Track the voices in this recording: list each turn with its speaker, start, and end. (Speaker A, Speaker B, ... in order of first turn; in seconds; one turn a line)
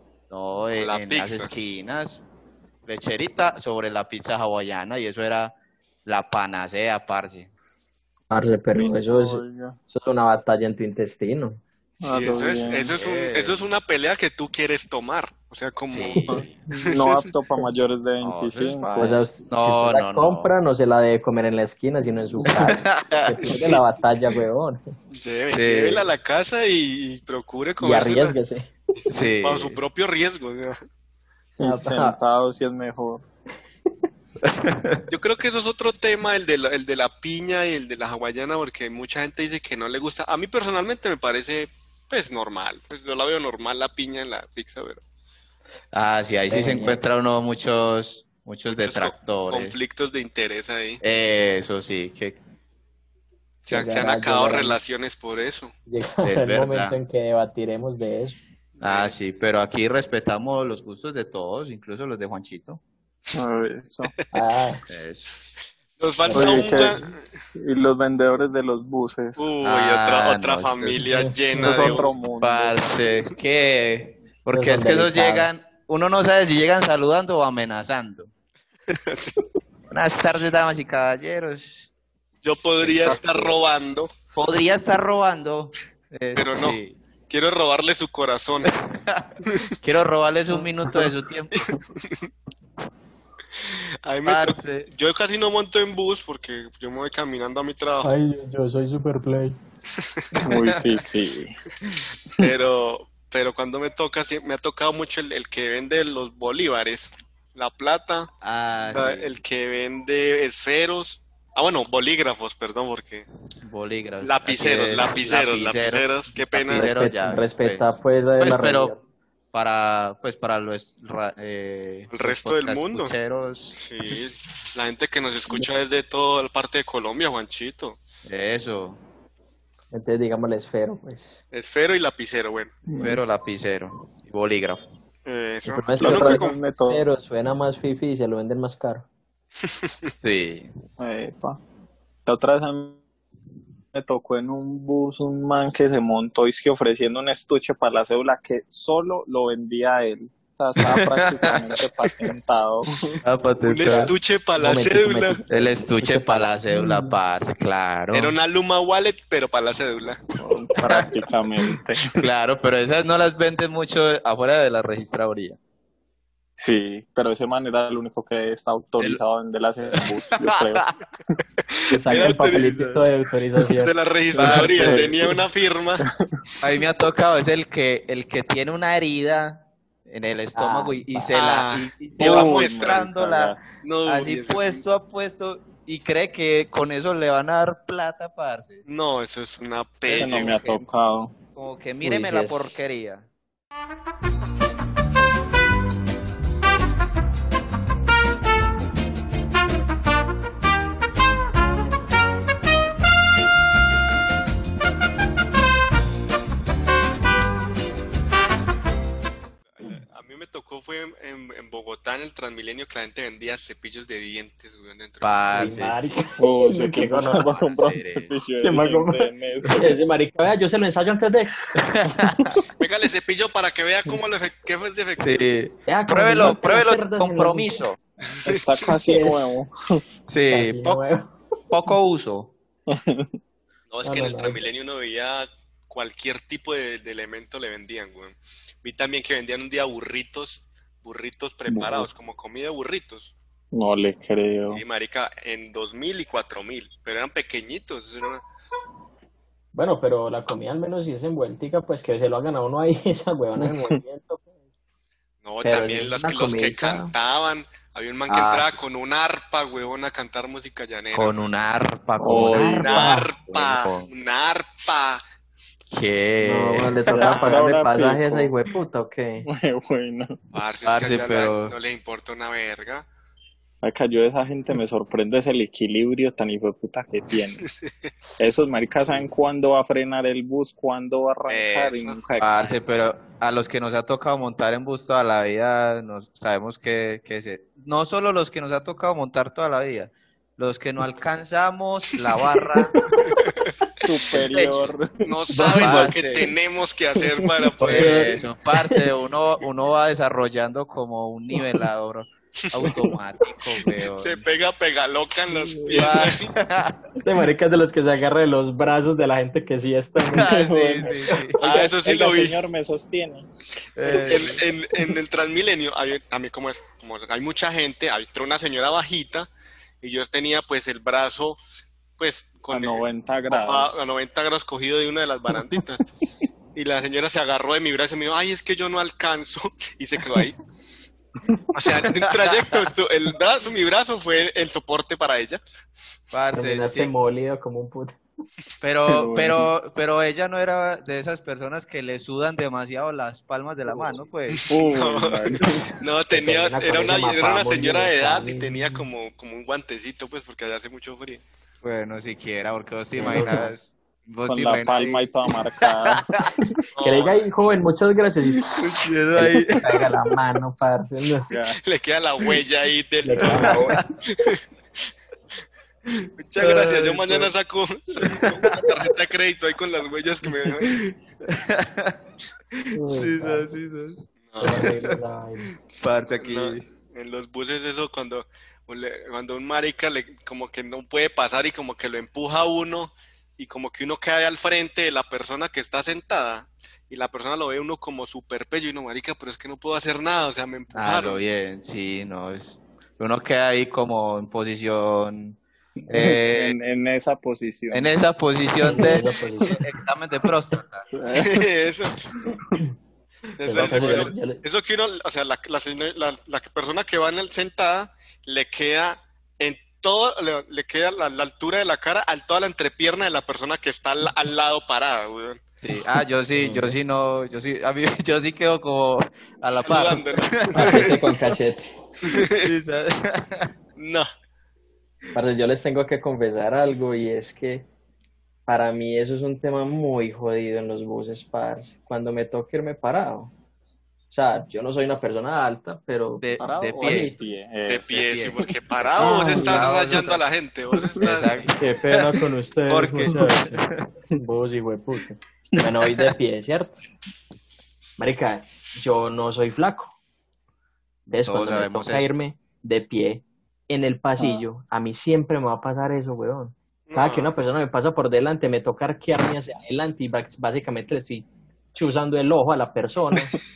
Speaker A: 0.3-2.2
Speaker B: 0.8-1.5
Speaker A: 2.9-7.5
Speaker C: 8.3-11.6
Speaker D: 8.7-9.8
Speaker D: 12.0-12.9
Speaker B: 12.0-16.3
Speaker A: 13.0-13.7
Speaker A: 15.9-16.6
Speaker D: 16.3-19.2
Speaker B: 16.9-17.3
Speaker A: 18.2-20.5
Speaker C: 19.0-24.8
Speaker A: 22.5-23.5
Speaker B: 23.4-23.8
Speaker B: 25.1-28.4
Speaker A: 25.5-26.1
Speaker C: 27.8-28.7
Speaker A: 29.1-29.8
Speaker B: 29.4-30.8
Speaker D: 31.6-33.2
Speaker C: 31.6-32.2
Speaker A: 34.4-35.0
Speaker B: 35.1-45.0
Speaker A: 45.9-49.8
Speaker C: 46.5-47.0
Speaker B: 48.7-51.0
Speaker A: 51.0-52.4
Speaker B: 53.6-55.7
Speaker C: 53.7-54.8
Speaker C: 55.9-58.4
Speaker A: 56.2-57.0
Speaker B: 58.8-59.1
Speaker A: 58.8-62.8
Speaker D: 63.3-64.1
Speaker C: 64.3-64.8
Speaker A: 64.9-65.3
Speaker B: 66.0-67.1
Speaker C: 66.2-67.1
Speaker D: 66.3-67.0
Speaker D: 67.5-69.5
Speaker B: 69.4-72.1
Speaker A: 69.6-71.0
Speaker C: 71.0-71.9
Speaker D: 71.5-72.8
Speaker A: 72.4-78.3
Speaker C: 74.5-75.5
Speaker B: 78.9-79.3
Speaker A: 79.9-81.9
Speaker B: 82.4-84.1
Speaker A: 82.8-83.5
Speaker A: 84.3-87.0
Speaker B: 86.3-88.7
Speaker A: 88.6-91.7
Speaker B: 91.6-92.3
Speaker B: 93.6-98.1
Speaker A: 94.2-94.9
Speaker C: 98.0-99.6
Speaker B: 100.0-100.3
Speaker A: 100.3-101.0
Speaker D: 100.4-101.5
Speaker B: 102.4-108.3
Speaker A: 108.4-109.3
Speaker B: 108.9-113.3
Speaker A: 113.6-118.9
Speaker B: 114.2-116.9
Speaker C: 116.7-119.0
Speaker A: 119.5-123.8
Speaker B: 122.1-123.1
Speaker B: 123.8-128.0
Speaker A: 128.2-129.0
Speaker C: 129.9-131.4
Speaker B: 131.5-132.8
Speaker D: 132.9-133.2
Speaker A: 132.9-134.8
Speaker B: 135.2-136.6
Speaker C: 135.7-139.1
Speaker D: 136.0-137.0
Speaker A: 140.2-140.7
Speaker D: 141.0-141.6
Speaker D: 142.2-143.0
Speaker D: 143.9-153.2
Speaker A: 150.8-151.5
Speaker A: 153.2-154.1
Speaker B: 153.6-155.4
Speaker C: 153.8-156.6
Speaker A: 155.5-158.3
Speaker B: 158.1-160.2
Speaker D: 160.4-162.2
Speaker A: 160.8-161.1
Speaker A: 162.0-165.6
Speaker D: 166.6-170.8
Speaker A: 170.4-170.9
Speaker C: 171.9-175.0
Speaker B: 172.1-173.0
Speaker B: 173.8-176.1
Speaker A: 174.3-175.1
Speaker D: 174.4-175.4
Speaker A: 176.6-188.8
Speaker C: 180.5-181.3
Speaker B: 181.3-183.1
Speaker D: 182.2-183.7
Speaker B: 183.8-184.9
Speaker B: 188.8-190.8
Speaker D: 190.0-191.3
Speaker A: 190.1-190.8
Speaker A: 191.5-193.3
Speaker C: 192.0-192.8
Speaker B: 209.8-215.4
Speaker A: 215.2-216.2
Speaker C: 215.5-217.5
Speaker D: 216.4-220.0
Speaker A: 217.5-218.3
Speaker C: 218.6-221.7
Speaker A: 221.8-222.6
Speaker B: 222.8-225.5
Speaker A: 225.2-228.0
Speaker C: 225.8-227.9
Speaker D: 228.4-230.0
Speaker C: 229.0-229.4
Speaker A: 230.3-231.0
Speaker C: 230.5-231.3
Speaker A: 231.7-232.5
Speaker D: 232.9-233.3
Speaker B: 233.9-243.3
Speaker C: 234.0-234.6
Speaker D: 241.7-242.1
Speaker D: 243.7-244.8
Speaker B: 244.7-248.4
Speaker C: 249.7-254.4
Speaker D: 253.6-254.0
Speaker B: 255.4-261.5
Speaker C: 255.6-257.1
Speaker A: 258.3-258.8
Speaker A: 261.1-264.1
Speaker D: 262.2-262.8
Speaker C: 262.5-263.3
Speaker B: 262.8-265.2
Speaker A: 265.9-267.3
Speaker C: 266.4-269.5
Speaker D: 267.1-268.5
Speaker B: 267.2-267.6
Speaker D: 269.4-270.4
Speaker B: 270.5-273.1
Speaker A: 270.8-271.7
Speaker D: 273.8-277.7
Speaker D: 278.4-282.8
Speaker B: 281.5-282.2
Speaker A: 282.4-293.0
Speaker D: 294.0-295.2
Speaker A: 294.4-294.9
Speaker B: 295.2-298.3
Speaker C: 295.5-296.1
Speaker A: 295.7-296.5
Speaker D: 297.2-297.7
Speaker C: 297.8-299.1
Speaker A: 297.8-304.4
Speaker D: 302.8-303.2
Speaker B: 304.2-306.5
Speaker D: 305.5-306.0
Speaker A: 305.9-307.0
Speaker C: 307.2-310.6
Speaker A: 310.3-311.6
Speaker D: 310.3-313.5
Speaker B: 311.6-312.6
Speaker A: 313.9-314.6
Speaker B: 314.1-319.5
Speaker B: 320.0-321.6
Speaker B: 322.2-326.0
Speaker D: 322.7-324.0
Speaker B: 326.7-330.6
Speaker B: 331.7-335.6
Speaker A: 332.1-332.9
Speaker A: 336.3-337.1
Speaker C: 336.5-338.2
Speaker A: 338.8-344.6
Speaker D: 339.1-339.7
Speaker B: 344.5-351.4
Speaker D: 344.7-345.8
Speaker C: 346.3-349.0
Speaker A: 351.8-356.5
Speaker C: 353.2-353.7
Speaker D: 353.2-353.5
Speaker D: 354.5-356.8
Speaker B: 356.9-357.5
Speaker C: 357.0-358.7
Speaker A: 358.8-360.1
Speaker C: 359.3-361.5
Speaker D: 361.5-361.8
Speaker B: 361.8-364.6
Speaker C: 363.2-364.1
Speaker A: 363.4-364.0
Speaker A: 366.1-367.5
Speaker B: 366.4-371.1
Speaker A: 368.2-369.0
Speaker A: 370.6-372.2
Speaker A: 372.7-375.2
Speaker C: 373.0-373.7
Speaker B: 374.5-374.9
Speaker C: 374.6-375.7
Speaker A: 375.9-376.9
Speaker B: 376.4-391.4
Speaker A: 390.9-396.8
Speaker D: 396.0-398.1
Speaker A: 397.9-401.1
Speaker C: 398.8-399.8
Speaker D: 401.1-401.7
Speaker B: 401.3-402.3
Speaker D: 402.5-402.8
Speaker B: 403.6-415.6
Speaker C: 403.6-404.6
Speaker A: 415.8-421.2
Speaker C: 416.5-417.0
Speaker B: 419.8-421.1
Speaker C: 420.7-421.9
Speaker B: 422.2-422.7
Speaker A: 422.5-423.7
Speaker B: 424.0-424.3
Speaker C: 425.3-427.9
Speaker C: 428.7-433.5
Speaker C: 434.3-437.4
Speaker A: 436.4-437.3
Speaker D: 436.6-438.1
Speaker B: 437.9-441.7
Speaker A: 438.0-438.6
Speaker C: 439.2-439.9
Speaker A: 439.2-440.4
Speaker A: 441.2-444.1
Speaker C: 441.8-443.8
Speaker C: 444.4-447.0
Speaker C: 448.2-450.1
Speaker A: 451.3-452.3
Speaker C: 451.3-463.5
Speaker B: 457.1-457.5